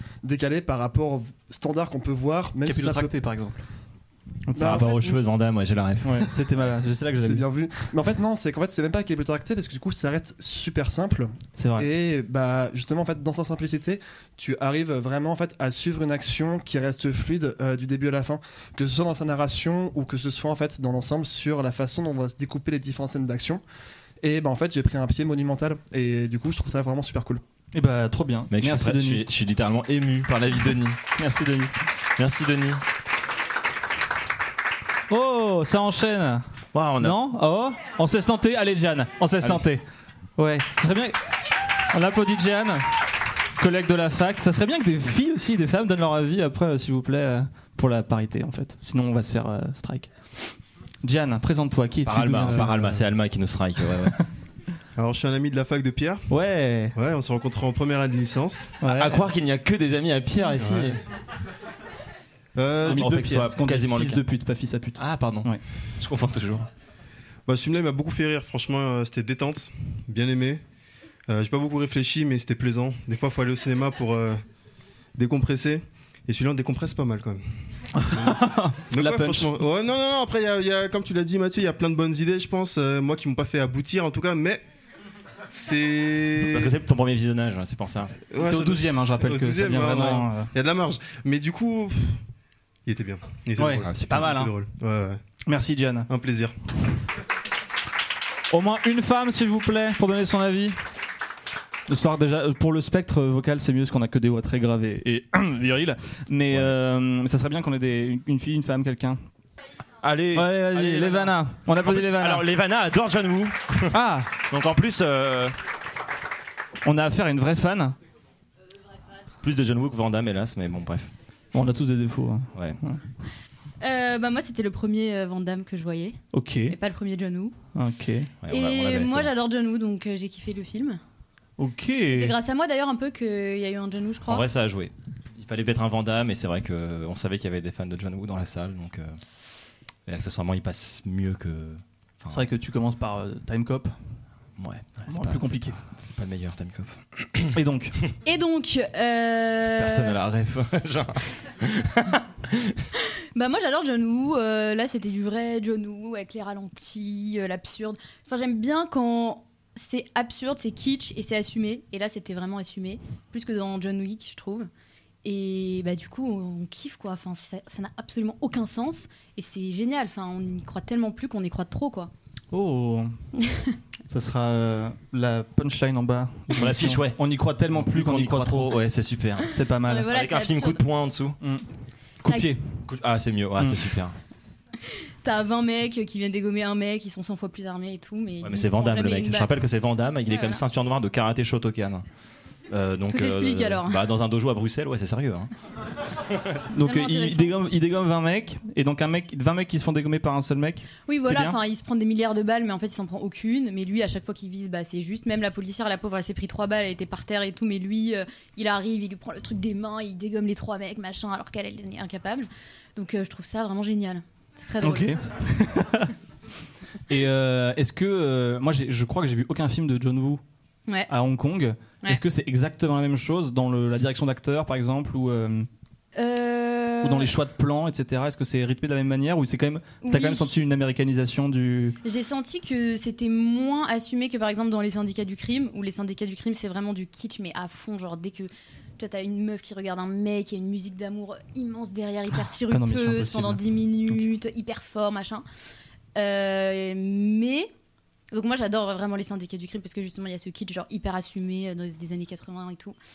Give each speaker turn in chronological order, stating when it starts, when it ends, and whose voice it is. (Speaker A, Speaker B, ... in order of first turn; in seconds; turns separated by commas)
Speaker A: 0.2-3.1, Speaker B: 2.6-3.6, Speaker B: 4.5-5.0, Speaker C: 4.6-6.3, Speaker A: 4.6-5.1, Speaker B: 6.0-7.5, Speaker A: 7.2-23.6, Speaker B: 11.6-11.9, Speaker A: 24.2-27.4, Speaker B: 27.7-29.3, Speaker C: 28.5-31.0, Speaker B: 31.2-31.7, Speaker C: 32.2-32.8, Speaker B: 35.1-36.5, Speaker C: 36.7-37.2, Speaker B: 37.0-39.8, Speaker B: 40.4-41.2, Speaker B: 41.9-42.9, Speaker B: 43.6-52.7, Speaker C: 52.0-54.2, Speaker D: 52.5-53.0, Speaker D: 55.0-56.3, Speaker B: 56.3-56.9, Speaker D: 56.9-58.8, Speaker B: 58.8-59.2, Speaker C: 58.9-61.0, Speaker D: 60.6-60.9, Speaker D: 62.6-63.3, Speaker C: 62.8-64.2, Speaker B: 62.8-65.6, Speaker C: 65.0-66.7, Speaker D: 67.5-70.6, Speaker D: 71.3-74.4, Speaker D: 75.2-77.4, Speaker B: 78.0-79.5, Speaker D: 78.1-84.7, Speaker D: 85.5-86.8, Speaker C: 86.4-88.1, Speaker D: 88.3-92.2, Speaker B: 88.4-90.5, Speaker D: 92.9-95.2, Speaker B: 93.6-94.5, Speaker C: 93.8-94.3, Speaker B: 95.5-96.1, Speaker D: 96.1-96.5, Speaker B: 98.5-100.8, Speaker B: 101.9-109.2, Speaker C: 110.0-115.5, Speaker B: 110.3-112.5, Speaker B: 113.9-114.3, Speaker B: 116.8-118.0, Speaker C: 119.4-121.1, Speaker B: 121.5-123.0, Speaker E: 123.8-127.6, Speaker B: 126.3-126.8, Speaker B: 127.8-128.3, Speaker C: 128.4-129.3, Speaker E: 128.5-131.0, Speaker B: 131.6-132.3, Speaker E: 132.1-134.5, Speaker C: 134.3-139.2, Speaker C: 140.1-142.5, Speaker B: 142.3-143.9, Speaker C: 144.6-147.6, Speaker B: 145.1-145.8, Speaker B: 147.5-148.0, Speaker E: 148.2-150.2, Speaker C: 149.8-152.9, Speaker E: 153.3-164.7, Speaker E: 165.2-172.1, Speaker B: 172.5-173.2, Speaker E: 173.4-173.7, Speaker B: 174.1-178.8, Speaker C: 176.5-177.2, Speaker C: 177.8-179.5, Speaker B: 179.5-180.1, Speaker E: 179.9-180.8, Speaker C: 180.1-181.4, Speaker B: 182.2-182.7, Speaker C: 182.9-184.2, Speaker B: 183.6-183.9, Speaker E: 185.2-189.6, Speaker C: 188.4-192.1, Speaker E: 190.3-190.6, Speaker C: 192.7-195.5, Speaker E: 193.1-194.1, Speaker B: 196.7-201.6, Speaker E: 196.8-197.6, Speaker E: 201.1-215.2, Speaker B: 214.8-216.1, Speaker B: 217.1-220.4, Speaker B: 221.1-225.7, Speaker E: 226.2-227.3, Speaker B: 227.0-232.0, Speaker E: 230.0-230.6, Speaker E: 232.0-245.4, Speaker B: 242.7-244.2, Speaker E: 246.2-247.7, Speaker E: 248.3-253.0